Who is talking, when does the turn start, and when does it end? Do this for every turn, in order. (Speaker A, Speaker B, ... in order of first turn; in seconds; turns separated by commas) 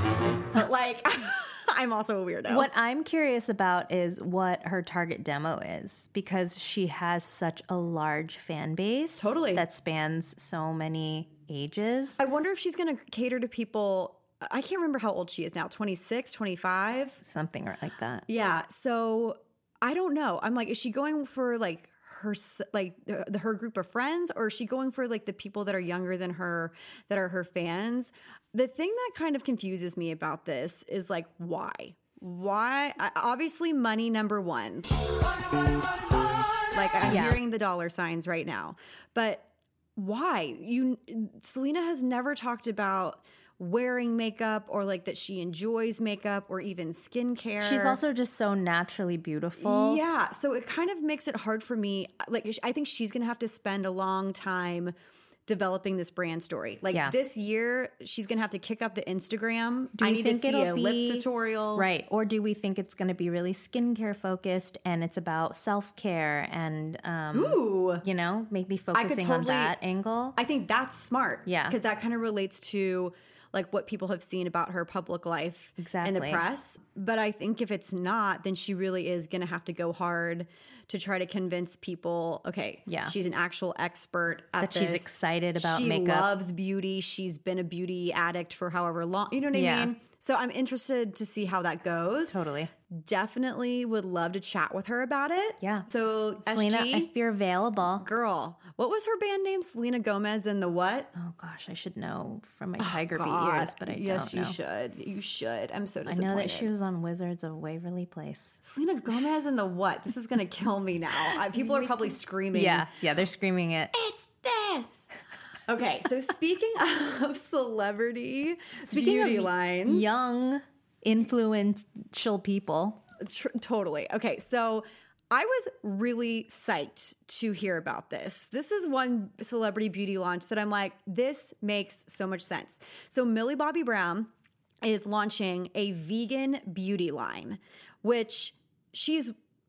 Speaker A: 0.5-2.7, Speaker B: 2.5-12.2, Speaker A: 9.2-9.6, Speaker A: 12.2-17.2, Speaker B: 17.2-18.2, Speaker A: 18.3-35.0, Speaker A: 36.7-48.0, Speaker B: 37.1-37.4, Speaker B: 47.6-50.0, Speaker A: 49.6-54.9, Speaker A: 55.5-61.9, Speaker B: 60.0-70.4, Speaker A: 67.3-68.0, Speaker A: 68.9-69.8, Speaker A: 70.4-92.4, Speaker B: 71.5-71.8, Speaker B: 75.8-76.4, Speaker B: 82.9-83.2, Speaker B: 84.6-86.3, Speaker B: 89.5-89.9, Speaker B: 92.3-92.7, Speaker A: 92.9-97.1, Speaker B: 95.6-98.1, Speaker A: 98.0-101.1, Speaker B: 101.2-104.6, Speaker A: 102.8-106.7, Speaker B: 106.1-108.6, Speaker A: 108.6-112.9, Speaker B: 112.5-113.9, Speaker A: 113.9-115.1, Speaker A: 115.7-120.1, Speaker B: 118.9-123.0, Speaker A: 123.2-134.3, Speaker A: 134.8-139.3